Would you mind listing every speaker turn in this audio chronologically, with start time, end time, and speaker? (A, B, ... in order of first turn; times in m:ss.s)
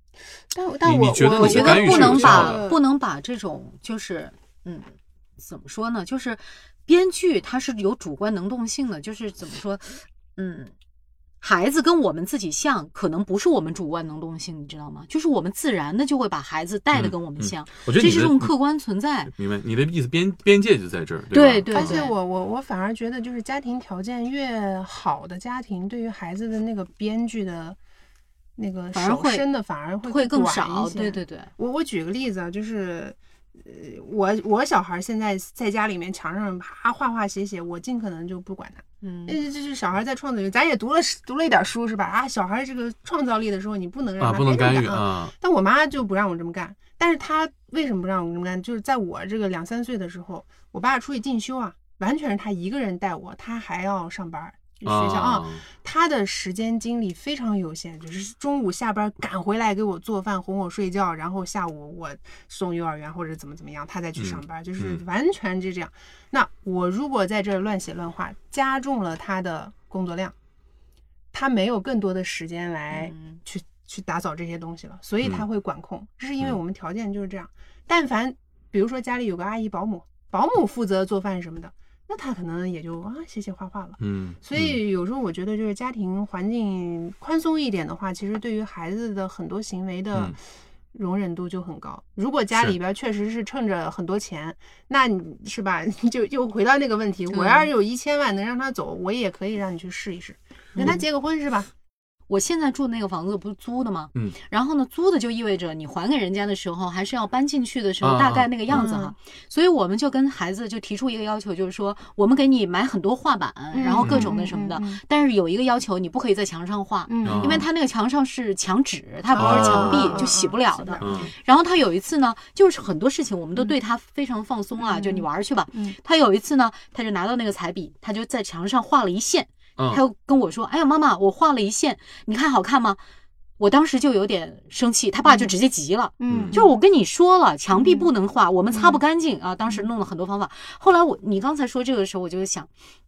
0:00.5-0:02.8 A
0:00.8-0:02.6 B
0:01.3-0:10.7 C
0:11.4-0:19.3 C
0:16.9-0:18.5 B
0:19.3-0:22.1 B
0:21.3-0:22.1 C
0:21.7-0:27.8 A
0:28.6-1:10.3 A
0:28.9-0:29.4 C
0:30.0-0:31.5 C
0:39.0-0:39.4 C
0:44.2-0:45.3 B
0:54.8-0:55.6 B
1:04.2-1:05.0 B
1:11.3-1:30.4 A
1:12.9-1:13.4 C
1:24.0-1:24.8 B
1:30.9-1:41.7 A
1:37.3-1:37.7 C
1:42.3-2:13.0 C
1:48.0-1:48.9 B
1:48.7-1:49.1 A
1:53.7-1:55.0 A
1:54.0-1:54.4 B
1:57.1-1:57.6 A
1:57.2-1:57.6 B
1:59.3-2:01.3 A
1:59.4-2:00.2 B
2:01.0-2:01.3 B
2:04.8-2:06.0 A
2:09.8-2:10.0 B
2:13.6-2:22.7 C
2:15.2-2:15.5 A
2:16.2-2:16.8 A
2:16.3-2:16.6 B
2:17.7-2:18.1 A
2:18.7-2:19.0 A